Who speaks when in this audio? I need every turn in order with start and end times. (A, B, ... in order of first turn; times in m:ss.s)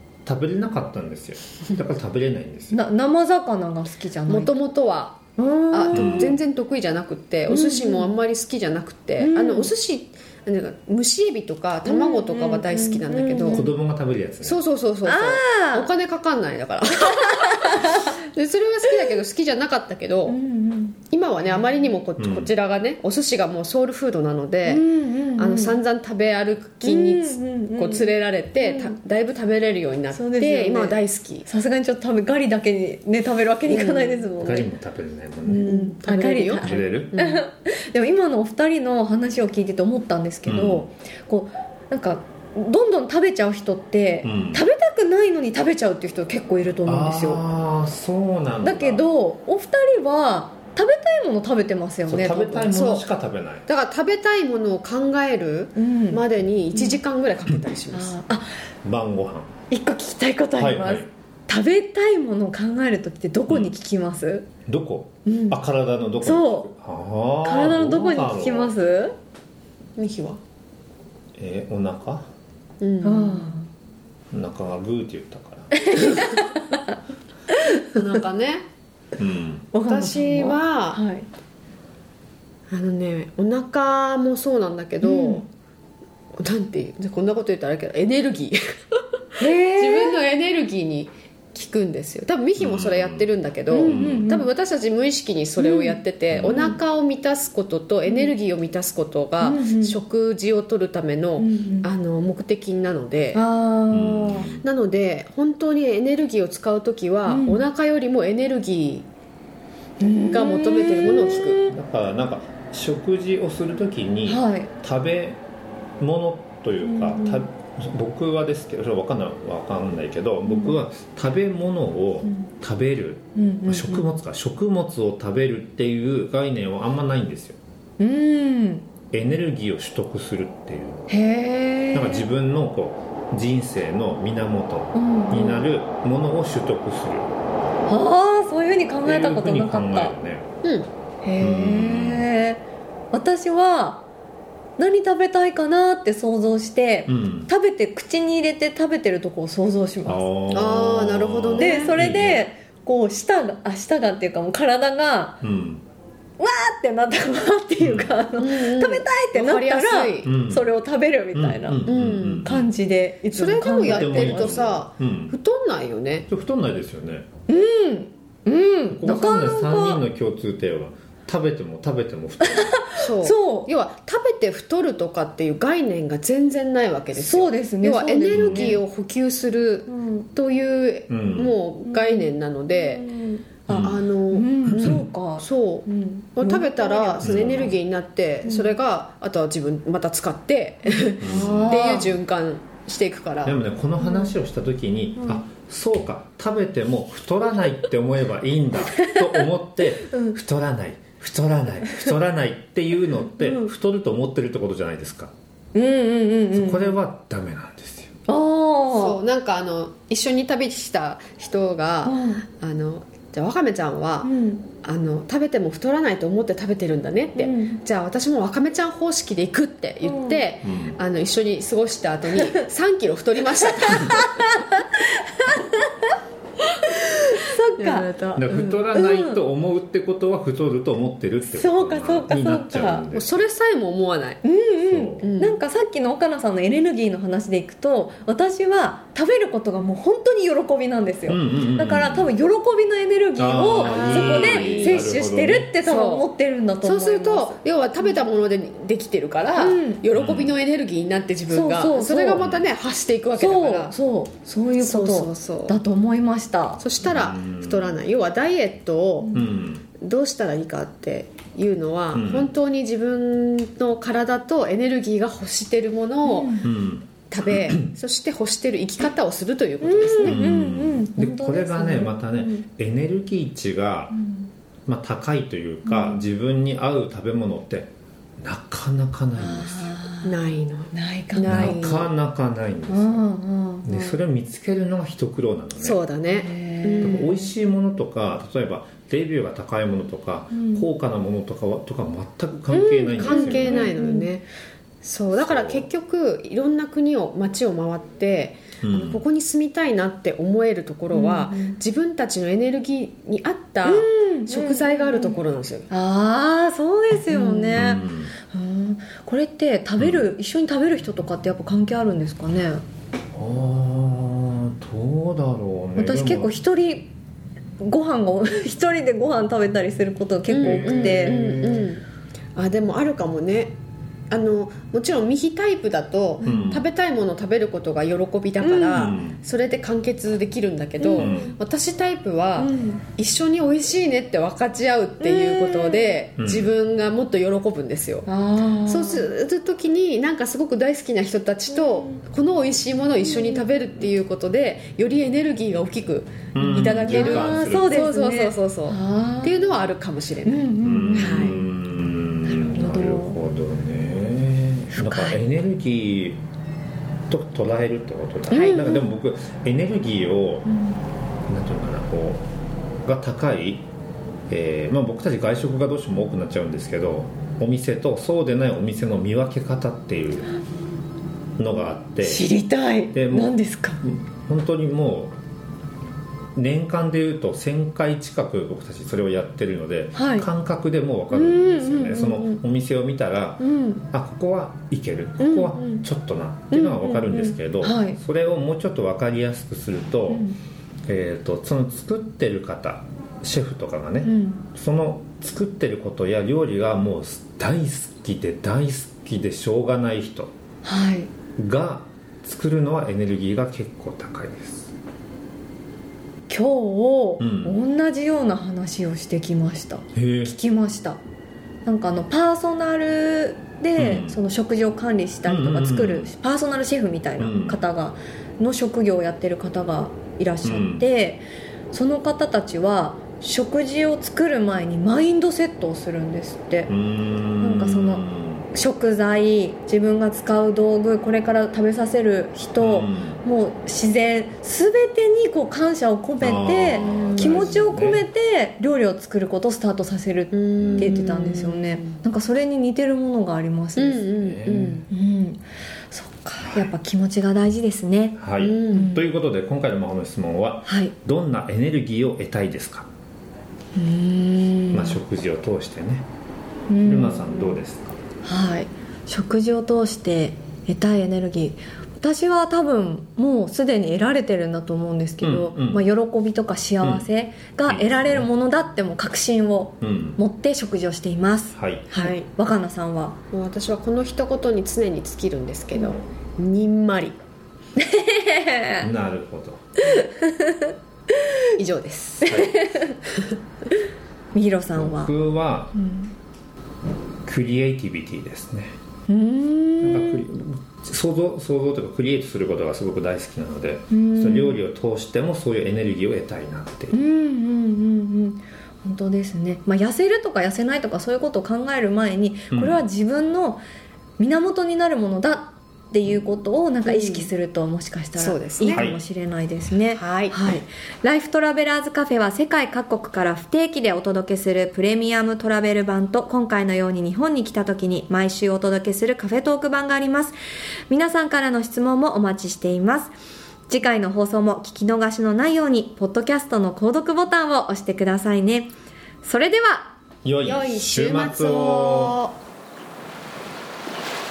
0:00.2-0:02.8 A
0:02.7-0:04.5 B
0:04.3-0:13.7 C
0:05.4-0:06.4 B
0:05.9-0:06.4 A
0:07.5-0:08.1 B
0:09.2-0:09.7 B
0:11.9-0:13.7 B
0:13.5-0:14.6 A
0:14.4-0:20.4 C
0:15.0-0:15.9 B
0:17.2-0:18.1 B
0:20.3-0:21.0 B
0:21.1-0:31.5 C
0:21.6-0:21.8 B
0:22.2-0:22.5 A
0:24.6-0:25.8 B
0:26.8-0:28.1 B
0:28.6-0:29.0 B
0:30.1-0:34.7 B
0:33.7-0:34.3 C
0:34.4-0:35.7 A
0:35.5-0:47.4 B
0:35.6-0:37.4 C
0:36.6-0:37.1 A
0:40.5-0:40.9 A
0:44.2-0:44.6 A
0:46.9-0:49.0 A
0:48.6-0:52.8 B
0:52.1-0:53.6 A
0:52.7-0:53.0 C
0:53.7-0:58.2 C
0:55.8-0:57.0 B
0:57.9-0:58.5 B
0:58.8-0:59.5 A
0:59.7-1:04.5 B
1:00.6-1:01.1 A
1:04.7-1:08.8 A
1:05.2-1:05.6 B
1:06.2-1:06.7 B
1:07.4-1:09.2 B
1:10.0-1:10.4 C
1:11.4-1:12.3 A
1:12.8-1:13.5 C
1:13.0-1:13.7 B
1:14.3-1:15.7 A
1:15.8-1:16.6 B
1:17.5-1:18.0 B
1:17.9-1:18.6 C
1:19.2-1:19.7 A
1:19.7-1:21.3 B
1:19.8-1:21.0 C
1:22.7-1:25.5 C
1:25.0-1:25.4 B
1:26.4-1:43.4 C
1:29.4-1:30.2 B
1:32.6-1:33.3 A
1:33.7-1:34.5 B
1:33.8-1:34.3 A
1:35.6-1:36.8 B
1:36.3-1:36.6 A
1:38.1-1:38.3 B
1:39.4-1:40.0 B
1:41.4-1:41.9 B
1:43.3-1:44.5 B
1:43.9-1:44.6 A
1:44.6-1:49.1 C
1:47.3-1:47.6 B
1:50.0-1:51.7 B
1:50.3-1:51.6 C
1:51.6-1:55.4 A
1:54.3-1:54.7 B
1:56.0-2:07.6 A
1:56.8-1:57.4 B
2:00.5-2:00.8 B
2:03.4-2:04.1 B
2:08.0-2:08.8 B
2:09.1-2:11.1 A
2:11.1-2:12.3 B
2:11.9-2:17.3 A
2:14.9-2:15.7 B
2:17.9-2:20.2 B
2:19.0-2:20.5 A
2:20.6-2:20.9 C
2:21.2-2:24.0 B
2:21.4-2:22.3 A
2:24.8-2:30.2 B
2:27.1-2:27.5 A
2:30.1-2:32.5 A
2:30.5-2:32.0 C
2:31.6-2:35.4 B
2:35.4-2:35.8 A
2:36.4-2:41.9 B
2:37.8-2:38.2 A
2:38.4-2:40.3 C
2:40.2-2:40.7 A
2:41.3-2:42.7 A
2:41.9-2:42.5 C
2:42.4-2:44.6 B
2:43.3-2:46.3 C
2:43.8-2:45.4 A
2:46.3-2:47.3 A
2:47.5-2:50.0 B
2:48.9-2:52.8 A
2:52.6-2:53.7 B
2:53.0-3:03.0 C
2:57.1-2:58.8 B
2:58.3-2:58.8 A
2:59.9-3:00.3 B
3:01.1-3:01.6 A
3:01.8-3:07.3 B
3:03.7-3:04.0 A
3:03.7-3:13.6 C
3:04.7-3:05.1 A
3:07.2-3:07.8 A
3:08.4-3:08.7 B
3:10.9-3:12.1 B
3:11.2-3:12.0 A
3:13.4-3:25.3 A
3:14.0-3:14.3 B
3:18.9-3:19.2 B
3:20.1-3:20.4 B
3:23.4-3:23.7 B
3:25.7-3:27.0 B
3:26.5-3:28.1 A
3:28.3-3:29.2 B
3:28.9-3:44.5 C
3:32.0-3:32.4 B
3:34.2-3:34.7 B
3:37.4-3:37.8 B
3:40.0-3:40.4 B
3:40.6-3:41.0 A
3:43.8-3:45.9 B
3:46.9-3:48.1 B
3:47.8-3:48.8 C
3:48.4-3:53.3 A
3:48.9-3:49.4 B
3:51.5-3:53.0 B
3:53.1-3:54.4 C
3:54.4-4:07.6 B
3:54.9-3:55.2 A
3:55.2-3:55.6 C
4:01.3-4:02.3 A
4:03.4-4:05.7 A
4:03.7-4:05.1 C
4:05.8-4:06.3 C
4:06.8-4:14.0 C
4:09.6-4:10.0 B
4:10.1-4:10.6 A
4:11.5-4:12.5 B
4:12.4-4:12.7 A
4:13.4-4:16.8 B
4:14.8-4:15.8 C
4:16.8-4:19.5 C
4:17.0-4:17.9 A
4:19.3-4:19.8 A
4:20.0-4:26.7 C
4:22.1-4:22.5 A
4:26.2-4:26.6 B
4:26.6-4:27.9 A
4:27.3-4:30.4 C
4:29.8-4:32.7 B
4:30.2-4:34.2 A
4:34.1-4:34.5 B
4:34.9-4:40.0 A
4:35.8-4:36.2 B
4:39.4-4:40.4 B
4:40.2-4:42.1 C
4:40.9-4:41.8 B
4:41.5-4:43.2 A
4:42.9-4:44.2 B
4:43.8-4:46.0 A
4:45.8-4:47.5 C
4:46.3-4:47.3 B
4:47.0-4:53.9 A
4:50.5-4:50.8 B
4:52.7-4:54.3 B
4:53.1-4:54.4 C
4:55.0-5:05.9 C
4:55.4-4:55.9 A
4:58.8-4:59.2 A
5:01.1-5:01.8 B
5:03.8-5:05.4 B
5:05.9-5:12.8 B
5:07.3-5:07.8 C
5:07.8-5:08.3 A
5:10.0-5:10.3 A
5:13.3-5:16.6 A
5:16.0-5:17.1 B
5:17.8-5:21.8 B
5:20.5-5:22.0 C
5:20.5-5:21.9 A
5:22.6-5:23.8 C
5:24.3-5:38.3 C
5:26.4-5:26.8 B
5:26.4-5:26.8 A
5:28.6-5:29.1 B
5:28.9-5:29.4 A
5:31.0-5:31.5 B
5:31.2-5:31.6 A
5:32.6-5:33.0 B
5:35.2-5:36.2 B
5:36.4-5:36.7 A
5:38.3-5:39.3 B
5:38.9-5:51.6 C
5:41.7-5:42.1 B
5:43.2-5:43.6 B
5:46.5-5:48.0 A
5:46.7-5:49.7 B
5:50.4-5:51.7 B
5:50.8-5:56.4 A
5:52.5-5:53.4 B
5:55.0-5:55.4 B
5:57.3-6:00.7 A
5:58.5-5:58.8 C
5:58.5-5:59.1 B
6:00.7-6:01.0 B
6:01.5-6:02.4 A
6:03.0-6:03.9 A
6:04.5-6:10.5 A
6:11.6-6:12.5 A
6:12.2-6:14.0 B
6:13.1-6:15.3 A
6:16.6-6:30.5 A
6:20.2-6:20.5 B
6:21.3-6:22.6 B
6:23.6-6:24.0 B
6:25.4-6:26.0 B
6:26.7-6:28.2 B
6:30.3-6:30.6 B
6:31.1-6:40.5 A
6:34.2-6:34.6 B
6:40.8-6:41.3 B
6:41.6-6:44.9 A
6:46.5-6:51.2 B
6:47.4-6:47.8 A
6:50.2-6:50.5 A
6:51.8-7:06.9 B
6:54.0-6:54.4 A
6:55.5-6:56.3 A
6:57.4-6:57.8 A
7:00.6-7:01.1 A
7:06.9-7:08.7 A
7:07.6-7:24.3 B
7:12.8-7:13.4 A
7:16.4-7:18.2 A
7:17.0-7:17.8 C
7:20.5-7:22.2 C
7:20.8-7:21.2 A
7:24.0-7:25.1 C
7:24.4-7:25.0 A
7:25.1-7:28.4 B
7:26.6-7:26.9 A
7:28.4-7:33.1 A
7:28.6-7:29.1 C
7:28.9-7:29.2 B
7:30.9-7:31.1 B
7:34.0-7:35.2 B
7:34.9-7:36.3 A
7:36.9-7:37.8 B
7:37.0-7:38.2 A
7:38.4-7:53.4 B
7:45.4-7:46.1 A
7:47.0-7:47.3 A
7:47.9-7:48.5 A
7:50.0-7:50.4 A
7:51.8-7:52.1 A
7:52.1-7:52.5 C
7:53.5-7:57.4 C
7:58.0-7:59.1 B
7:59.0-7:59.8 A
8:00.1-8:01.5 B
8:01.8-8:02.6 C
8:02.5-8:02.8 A
8:02.5-8:03.2 B
8:04.5-8:05.3 B
8:05.0-8:06.0 A
8:06.0-8:06.3 B
8:07.5-8:09.0 A
8:09.3-8:10.4 B
8:10.0-8:17.2 A
8:14.1-8:14.8 B
8:17.1-8:23.8 B
8:22.7-8:23.0 A
8:24.4-8:40.6 B
8:27.0-8:27.5 C
8:28.4-8:29.1 C
8:28.9-8:29.2 A
8:30.2-8:30.7 C
8:41.1-8:43.4 B
8:43.9-8:50.2 B
8:50.4-8:52.4 A
8:50.6-8:52.5 C